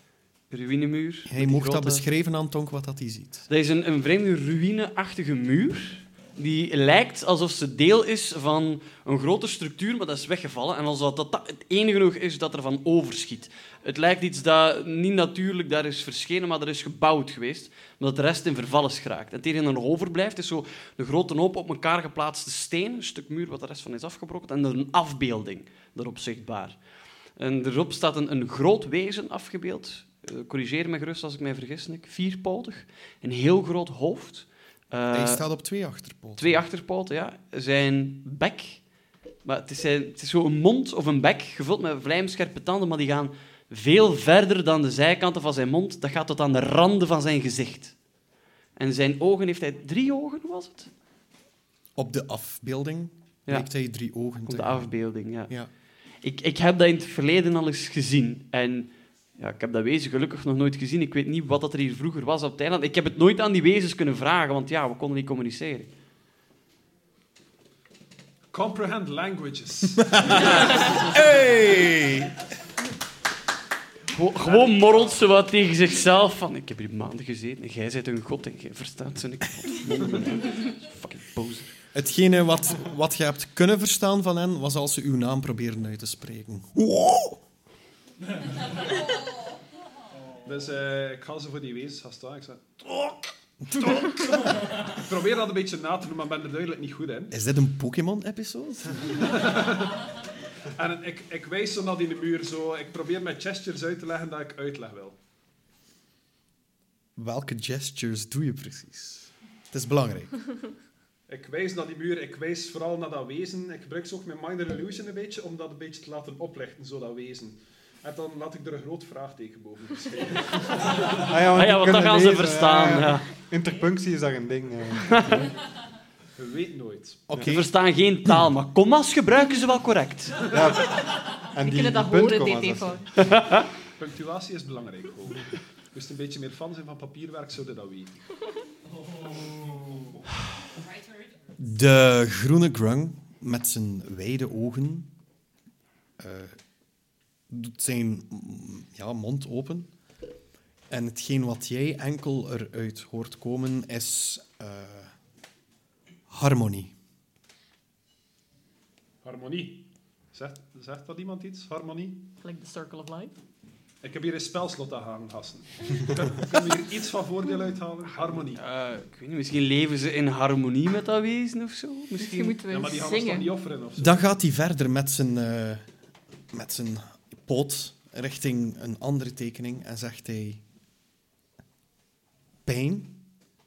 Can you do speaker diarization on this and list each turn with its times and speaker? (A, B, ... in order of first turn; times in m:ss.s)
0:00.5-0:02.0 A
0:01.3-0:03.5 B
0:03.5-0:26.8 A
0:27.4-0:35.4 A
0:35.1-0:36.6 B
0:36.4-0:38.8 A
0:39.4-0:47.9 A
0:48.8-0:50.9 A
0:52.0-0:54.9 B
0:54.4-0:55.6 A
0:56.2-1:05.9 A
1:08.5-1:10.9 C
1:10.3-1:12.3 B
1:14.1-1:21.8 A
1:14.4-1:15.2 C
1:21.9-1:27.4 B
1:30.4-1:37.3 C
1:37.3-1:39.2 B
1:39.2-1:40.0 C
1:40.7-1:45.2 C
1:47.2-1:50.4 B
1:51.3-2:01.1 C
2:01.2-2:05.5 D
2:01.5-2:03.3 A
2:06.4-2:07.3 C
2:07.3-2:07.7 B
2:07.4-2:10.5 A
2:10.5-2:13.0 D
2:11.6-2:13.1 E
2:13.2-2:13.6 A
2:14.0-2:18.2 C
2:21.6-2:25.1 B
2:26.2-2:26.6 B
2:27.5-2:29.9 B
2:30.9-2:35.1 B
2:36.3-2:36.9 B
2:39.2-2:42.3 C
2:42.4-2:43.3 E
2:44.0-2:48.6 C
2:48.5-2:52.6 A
2:52.2-2:53.5 E
2:52.6-2:54.2 C
2:54.0-2:55.9 B
2:56.5-3:00.6 B
3:02.6-3:03.2 B